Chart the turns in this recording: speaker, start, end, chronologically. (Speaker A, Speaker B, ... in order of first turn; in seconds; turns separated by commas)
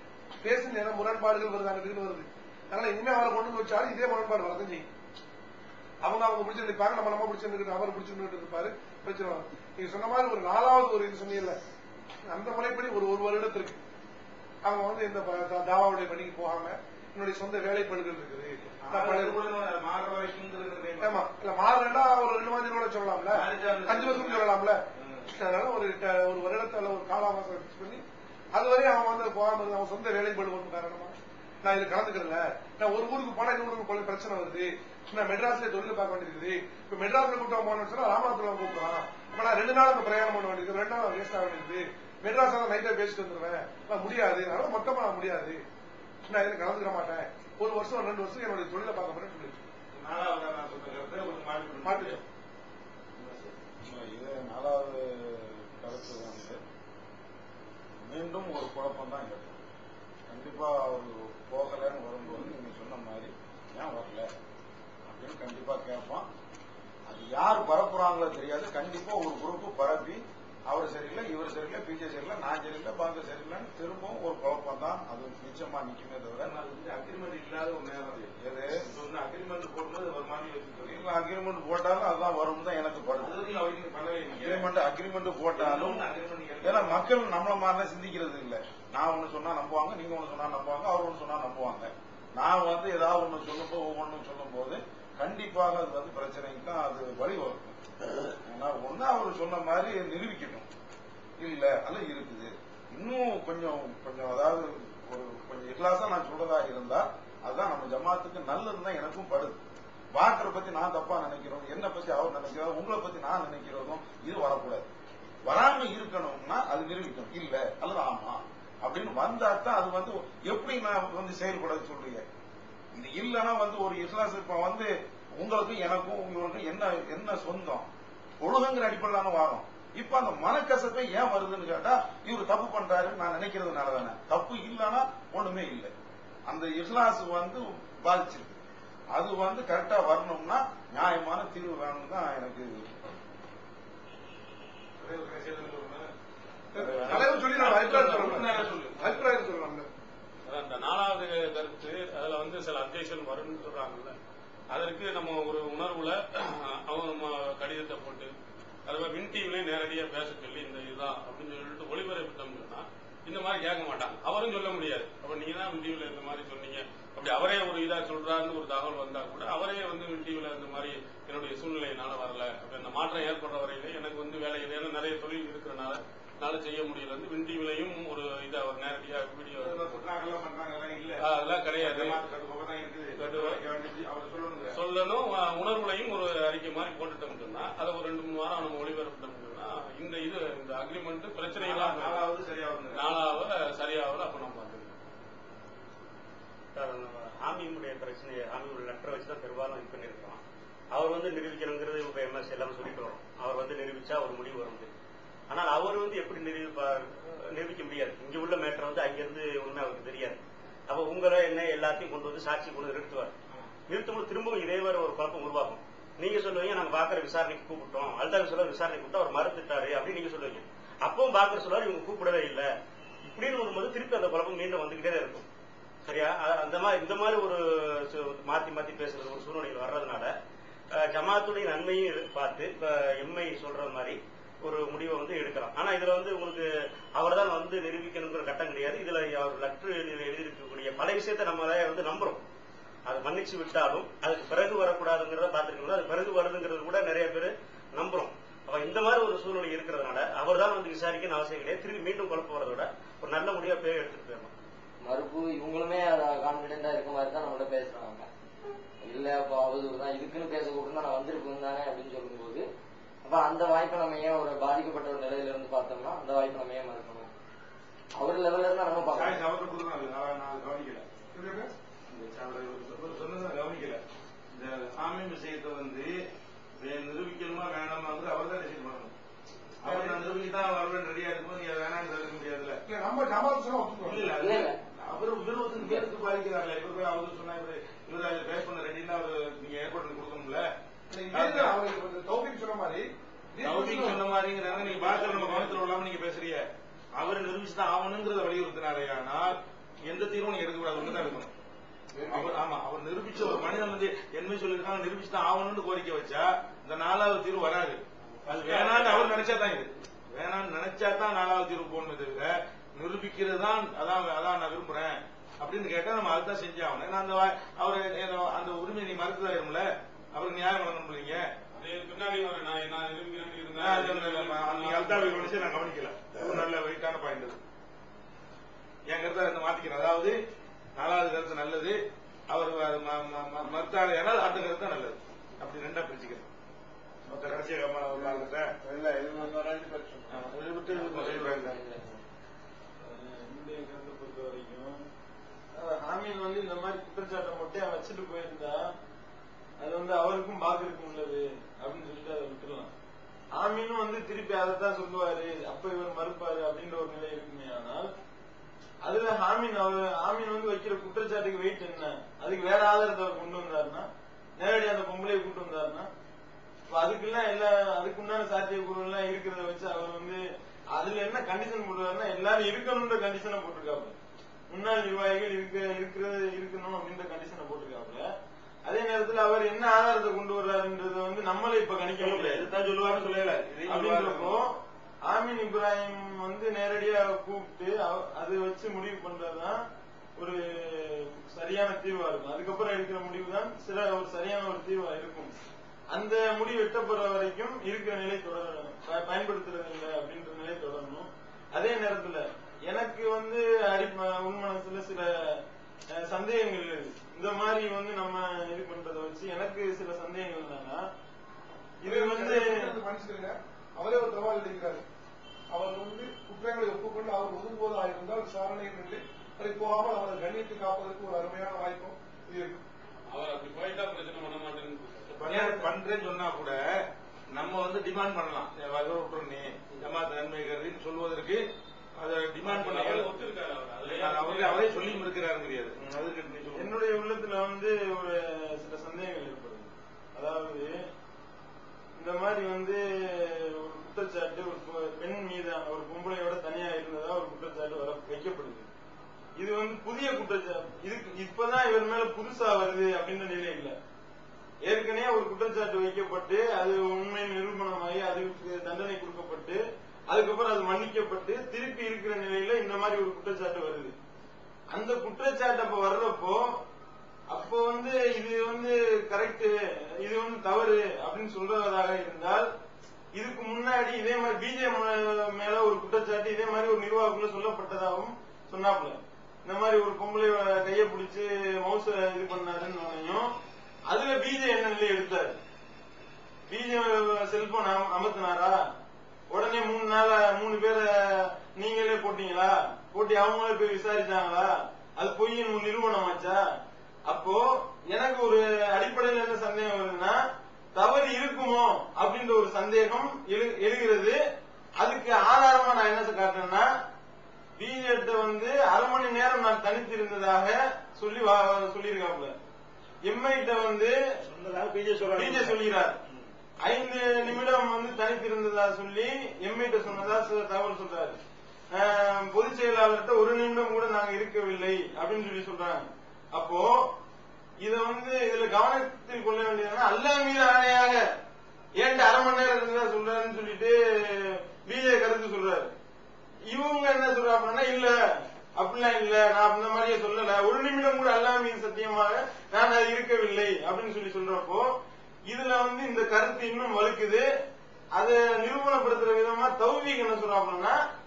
Speaker A: 0.4-4.9, Speaker A: 6.0-11.6, Speaker A: 12.3-13.8, Speaker A: 14.6-19.4, Speaker B: 18.8-21.2, Speaker A: 21.0-45.6, Speaker B: 23.4-24.4, Speaker A: 46.3-49.7, Speaker B: 50.0-52.1, Speaker A: 51.8-52.2, Speaker C: 53.8-56.6, Speaker C: 58.0-59.5, Speaker C: 60.3-64.3, Speaker C: 65.1-66.3, Speaker C: 67.1-76.5, Speaker B: 76.4-81.0, Speaker C: 78.4-78.9, Speaker C: 80.8-83.4, Speaker B: 83.2-84.7, Speaker C: 84.4-86.1, Speaker B: 85.5-87.1, Speaker C: 86.6-97.8, Speaker C: 98.4-100.7, Speaker C: 101.4-109.6, Speaker C: 110.1-114.9, Speaker C: 115.5-122.2, Speaker C: 122.9-127.9, Speaker C: 128.4-135.9, Speaker C: 136.5-138.6, Speaker C: 139.1-142.8, Speaker B: 145.1-146.1, Speaker A: 146.7-149.9, Speaker C: 146.8-149.2, Speaker D: 150.5-154.2, Speaker D: 154.7-158.3, Speaker D: 158.9-180.0, Speaker C: 179.5-181.2, Speaker D: 181.2-182.2, Speaker C: 181.8-184.8, Speaker D: 183.2-183.6, Speaker D: 184.7-192.2, Speaker C: 191.7-192.8, Speaker B: 191.8-193.0, Speaker D: 192.9-194.9, Speaker E: 196.8-204.9, Speaker E: 205.5-213.3, Speaker E: 213.9-222.7, Speaker E: 223.2-225.5, Speaker E: 226.0-230.3, Speaker E: 231.1-236.7, Speaker E: 237.2-242.4, Speaker E: 243.1-254.5, Speaker F: 255.1-258.2, Speaker E: 255.2-258.3, Speaker F: 259.1-262.6, Speaker E: 259.1-260.5, Speaker E: 261.3-262.3, Speaker F: 263.3-267.3, Speaker F: 268.2-269.2, Speaker E: 269.0-269.4, Speaker B: 269.1-271.1, Speaker A: 271.3-271.7, Speaker B: 272.1-274.0, Speaker B: 274.5-276.1, Speaker B: 276.8-279.1, Speaker C: 279.8-280.1, Speaker B: 279.8-282.8, Speaker A: 279.9-280.2, Speaker A: 282.9-284.4, Speaker B: 284.1-290.7, Speaker E: 284.4-284.8, Speaker E: 285.8-286.1, Speaker A: 291.1-294.2, Speaker B: 291.3-291.8, Speaker B: 293.6-296.6, Speaker C: 295.0-295.8, Speaker B: 297.2-299.5, Speaker B: 300.1-301.5, Speaker A: 302.2-302.5, Speaker B: 302.3-321.4, Speaker C: 308.5-309.5, Speaker D: 321.8-325.8, Speaker B: 323.8-327.6, Speaker C: 326.3-326.6, Speaker B: 329.1-330.4, Speaker B: 331.0-332.0, Speaker B: 332.5-336.5, Speaker B: 337.3-338.8, Speaker E: 339.8-340.2, Speaker B: 340.3-341.8, Speaker E: 340.9-342.0, Speaker G: 343.0-344.9, Speaker G: 345.7-348.9, Speaker G: 349.8-352.9, Speaker G: 353.6-358.1, Speaker G: 359.0-364.1, Speaker G: 364.6-366.1, Speaker G: 366.9-370.4, Speaker G: 370.9-374.2, Speaker G: 374.7-378.2, Speaker G: 378.9-382.7, Speaker B: 382.9-384.5, Speaker G: 383.9-384.7, Speaker G: 385.3-389.8, Speaker G: 390.4-395.5, Speaker G: 396.1-405.6, Speaker G: 406.1-411.0, Speaker G: 412.0-412.9, Speaker A: 412.0-415.0, Speaker A: 415.7-422.8, Speaker D: 423.3-425.5, Speaker B: 425.3-426.8, Speaker C: 425.4-425.9, Speaker B: 427.5-431.6, Speaker B: 432.2-433.4, Speaker D: 432.6-435.3, Speaker B: 434.1-436.9, Speaker G: 436.7-440.9, Speaker G: 442.2-448.9, Speaker G: 449.6-453.9, Speaker G: 454.9-459.8, Speaker G: 460.3-464.1, Speaker G: 464.9-466.6, Speaker G: 467.5-472.6, Speaker G: 473.3-483.5, Speaker G: 484.1-485.6, Speaker G: 486.7-488.7, Speaker G: 489.5-496.6, Speaker G: 497.3-500.4, Speaker G: 500.9-504.4, Speaker G: 505.0-506.9, Speaker G: 507.8-512.5, Speaker G: 513.2-514.1, Speaker G: 515.2-516.2, Speaker E: 515.3-515.7, Speaker G: 516.8-521.4, Speaker G: 521.9-527.1, Speaker G: 527.8-531.2, Speaker G: 532.0-535.9, Speaker G: 536.7-538.1, Speaker G: 538.8-544.9, Speaker G: 545.5-547.4, Speaker G: 548.1-551.0